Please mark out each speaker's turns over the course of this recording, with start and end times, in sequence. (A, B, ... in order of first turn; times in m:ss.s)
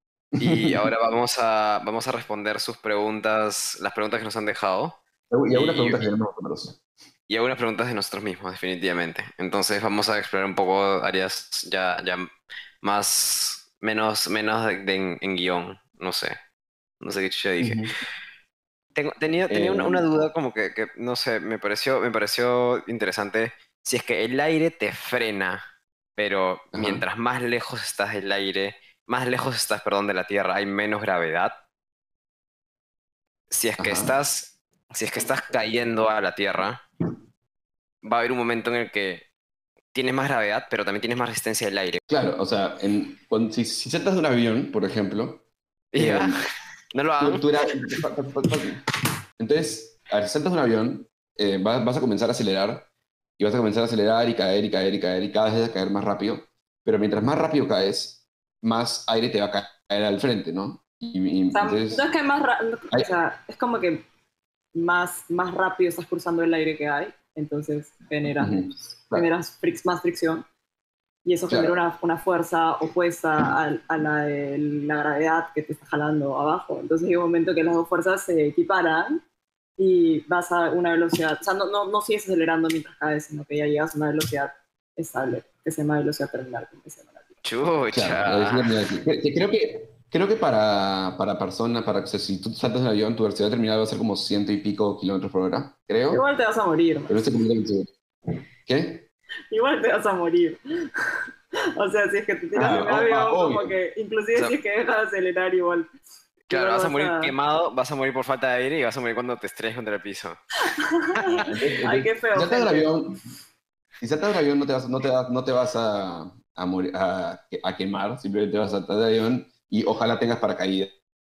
0:00.3-0:00.8 A
0:00.4-0:05.0 B
0:05.3-0:06.8 A
0:05.5-0:06.0 B
0:07.3-0:16.4 B
0:17.0-0:17.8 B
0:17.6-0:17.9 A
0:18.9-0:25.6 B
0:19.5-0:20.3 A
0:26.2-0:31.5 B
0:26.7-0:27.0 A
0:33.5-0:36.8 B
0:33.8-0:34.1 A
0:38.0-0:39.2 B
0:39.9-0:42.0 B
0:42.1-0:45.4 A
0:45.9-0:46.4 B
0:46.0-0:46.4 A
0:46.9-0:47.4 B
0:47.2-0:48.8 A
0:49.4-1:02.0 A
1:01.5-1:04.0 C
1:04.7-1:08.6 C
1:08.4-1:09.3 A
1:09.1-1:10.4 C
1:11.2-1:19.2 C
1:11.5-1:11.8 A
1:19.8-1:27.4 C
1:27.4-1:28.7 B
1:27.9-1:36.2 A
1:36.1-1:37.3 C
1:37.1-1:37.9 A
1:38.6-1:39.1 A
1:39.5-1:40.6 C
1:41.8-1:46.0 C
1:42.5-1:43.8 A
1:46.5-1:47.3 C
1:46.5-1:50.4 B
1:50.8-1:52.9 C
1:51.4-1:53.2 A
1:54.0-2:01.0 A